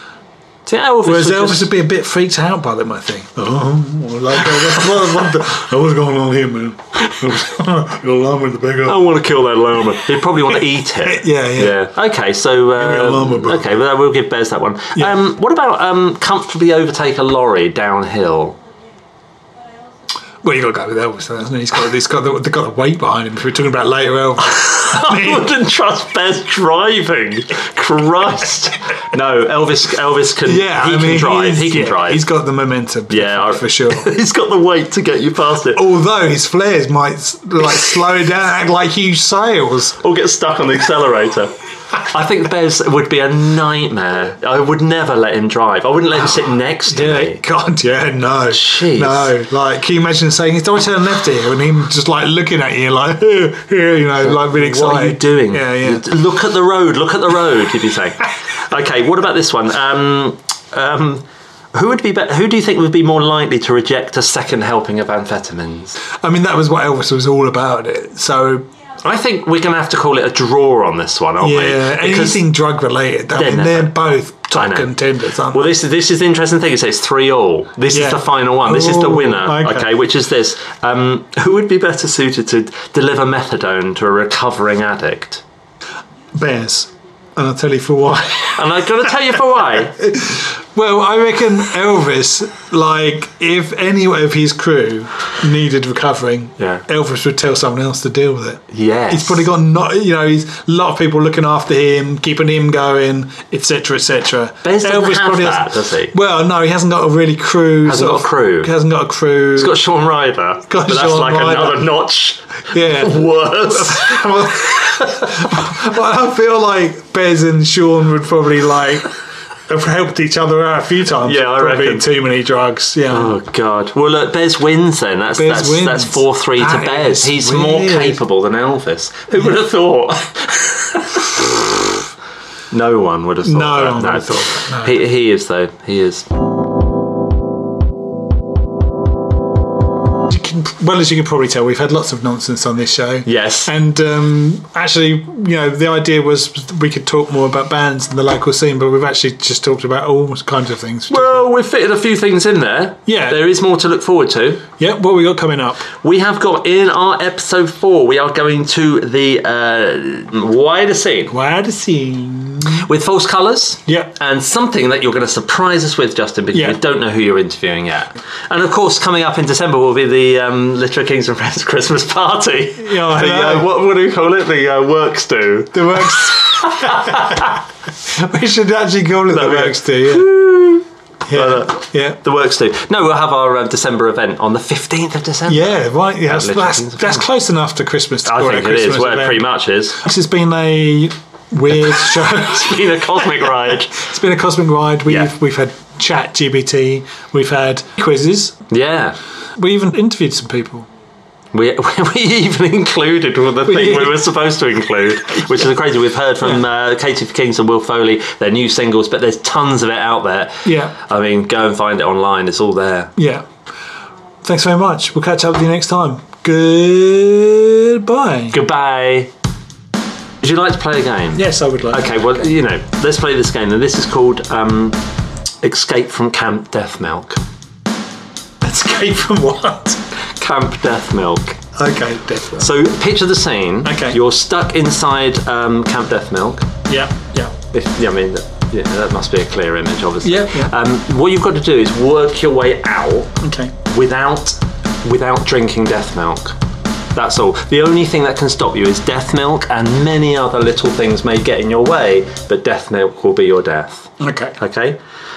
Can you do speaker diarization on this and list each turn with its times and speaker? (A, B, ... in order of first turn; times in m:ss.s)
0:00.6-0:01.7 A
0:01.0-0:09.0 B
0:08.9-0:18.6 A
0:10.4-0:11.9 B
0:12.7-0:13.8 B
0:20.4-0:25.6 B
0:24.4-0:32.2 A
0:30.4-0:34.1 B
0:33.1-0:35.8 A
0:35.7-0:40.0 B
0:40.0-0:41.5 A
0:42.1-0:47.4 A
0:46.2-0:56.1 B
0:48.5-0:49.4 A
0:54.2-1:06.0 A
1:06.2-1:08.6 B
1:09.0-1:12.4 A
1:11.4-1:15.8 B
1:13.3-1:14.0 A
1:14.5-1:14.9 A
1:15.5-1:25.4 A
1:17.9-1:19.9 B
1:26.3-1:29.1 B
1:28.5-1:30.0 A
1:30.0-1:49.8 B
1:36.6-1:36.8 A
1:38.7-1:39.5 A
1:44.6-1:46.1 A
1:47.8-1:48.7 A
1:49.6-1:55.5 A
1:50.7-1:52.0 B
1:52.7-2:03.3 B
2:01.2-2:02.1 A
2:03.1-2:11.7 A
2:05.3-2:08.2 B
2:12.7-2:16.2 A
2:13.4-2:15.0 B
2:20.3-2:31.5 B
2:23.2-2:23.7 A
2:31.1-2:34.6 A
2:33.0-2:33.5 B
2:34.8-2:35.9 B
2:36.0-2:41.3 A
2:41.3-2:42.9 B
2:42.8-2:57.6 A
2:43.9-2:44.1 B
2:46.5-2:46.8 B
2:52.8-2:53.7 B
2:55.7-2:57.6 B
2:58.1-3:00.4 B
2:59.3-3:07.3 A
3:01.3-3:02.2 B
3:05.4-3:18.6 B
3:08.2-3:10.0 A
3:11.7-3:14.0 A
3:18.7-3:19.2 A
3:19.6-3:20.9 B
3:21.5-3:33.1 A
3:23.6-3:24.3 B
3:30.6-3:30.9 B
3:33.2-3:33.4 B
3:34.4-3:38.6 B
3:38.5-3:39.3 A
3:40.4-3:45.0 A
3:41.3-3:42.3 B
3:45.6-3:47.4 A
3:48.6-3:50.0 B
3:50.3-3:51.6 A
3:51.8-3:52.7 B
3:52.6-3:56.7 A
3:53.8-3:54.2 B
3:56.9-3:57.6 B
3:57.7-4:06.6 A
4:00.2-4:00.7 B
4:03.4-4:03.7 B
4:07.1-4:15.0 A
4:14.2-4:14.6 B